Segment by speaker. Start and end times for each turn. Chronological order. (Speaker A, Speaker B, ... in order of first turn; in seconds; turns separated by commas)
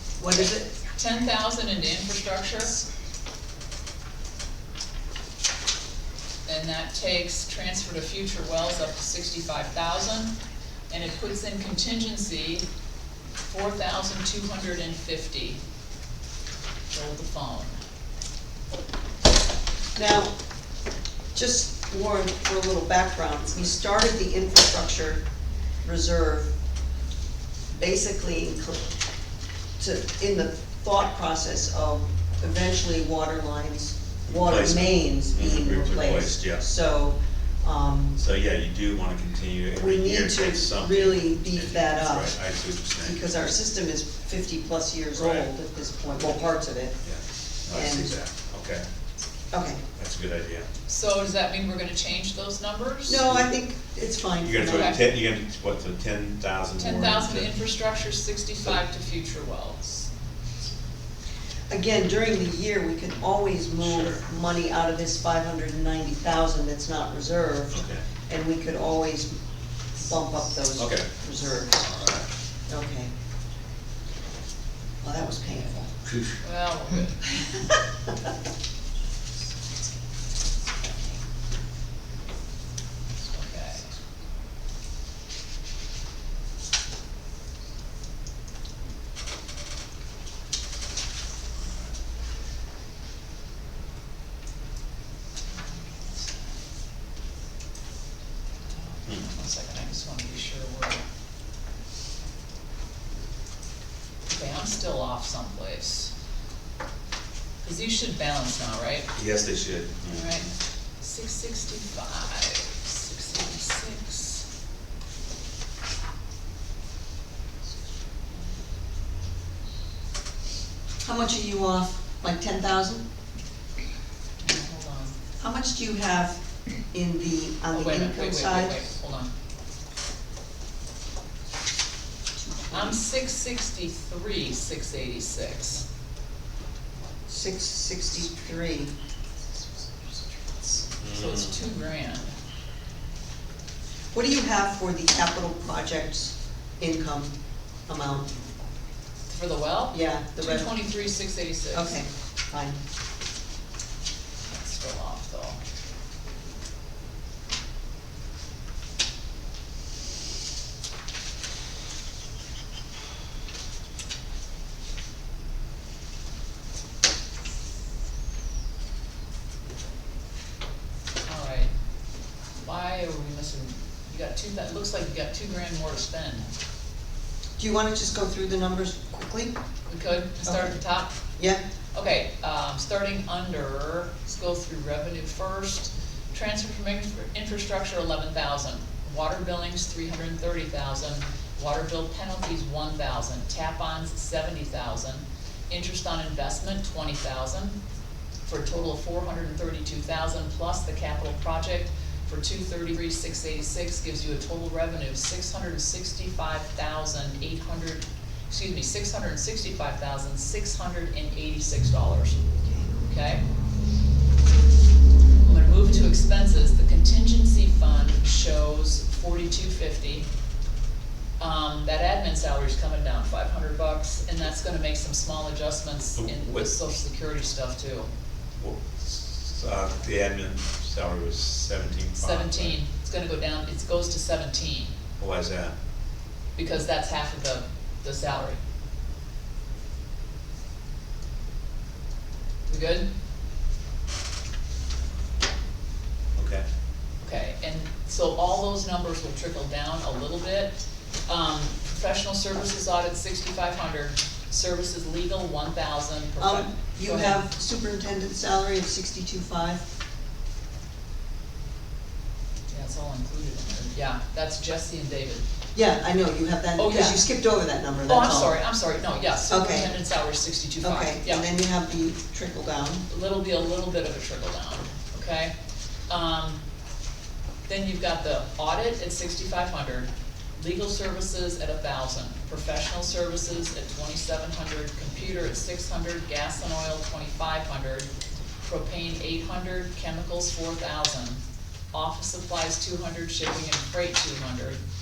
Speaker A: 0.2-0.7, Speaker B: 0.3-2.8, Speaker B: 6.5-10.4, Speaker B: 10.9-12.7, Speaker B: 13.4-15.6, Speaker B: 16.9-17.8, Speaker A: 19.9-20.3, Speaker A: 21.3-25.2, Speaker A: 25.8-26.5, Speaker A: 27.8-28.9, Speaker A: 29.8-38.2, Speaker C: 34.3-36.6, Speaker C: 38.2-43.2, Speaker A: 39.7-42.4, Speaker A: 43.0-47.0, Speaker C: 45.1-45.5, Speaker C: 47.0-48.8, Speaker A: 47.7-48.1, Speaker A: 49.5-49.8, Speaker C: 50.0-50.7, Speaker B: 50.9-53.2, Speaker A: 53.1-54.9, Speaker C: 54.4-57.5, Speaker B: 54.7-55.0, Speaker B: 56.8-59.8, Speaker A: 61.7-69.4, Speaker C: 63.8-64.2, Speaker C: 67.7-68.0, Speaker A: 70.0-71.8, Speaker C: 70.8-71.1, Speaker C: 71.8-72.3, Speaker A: 72.7-73.1, Speaker A: 75.0-76.0, Speaker B: 76.4-77.3, Speaker B: 83.2-83.9, Speaker B: 95.5-96.6, Speaker B: 98.7-101.0, Speaker B: 104.3-106.1, Speaker B: 107.6-109.1, Speaker C: 109.2-110.5, Speaker B: 110.1-110.5, Speaker B: 111.0-114.5, Speaker A: 121.0-123.1, Speaker B: 124.4-125.2, Speaker A: 125.4-126.4, Speaker A: 126.9-128.9, Speaker B: 127.7-129.3, Speaker A: 132.4-133.0, Speaker B: 132.7-135.8, Speaker A: 137.3-138.9, Speaker B: 140.5-142.3, Speaker C: 141.0-141.6, Speaker A: 144.1-147.3, Speaker A: 147.9-148.3, Speaker B: 149.3-152.0, Speaker A: 149.9-150.8, Speaker A: 151.7-152.8, Speaker B: 154.5-155.6, Speaker B: 171.2-171.7, Speaker B: 172.6-176.5, Speaker A: 177.6-179.6, Speaker B: 179.9-181.1, Speaker A: 180.4-180.8, Speaker B: 181.9-197.8, Speaker B: 198.4-212.4, Speaker A: 212.6-212.9, Speaker B: 213.1-213.4, Speaker B: 215.4-220.3, Speaker B: 221.4-228.1, Speaker C: 226.2-226.7, Speaker C: 228.6-232.8, Speaker B: 232.2-234.9, Speaker C: 235.2-235.7, Speaker B: 236.6-238.6, Speaker B: 242.7-243.1, Speaker C: 246.4-246.6, Speaker B: 247.2-257.4, Speaker A: 256.4-259.9, Speaker B: 262.7-265.4, Speaker A: 265.7-268.6, Speaker B: 266.8-267.2, Speaker B: 268.1-271.5, Speaker A: 269.5-269.9, Speaker A: 270.8-273.1, Speaker B: 273.1-275.5, Speaker B: 276.1-276.6, Speaker B: 277.7-288.1, Speaker B: 288.6-291.4, Speaker B: 291.9-294.8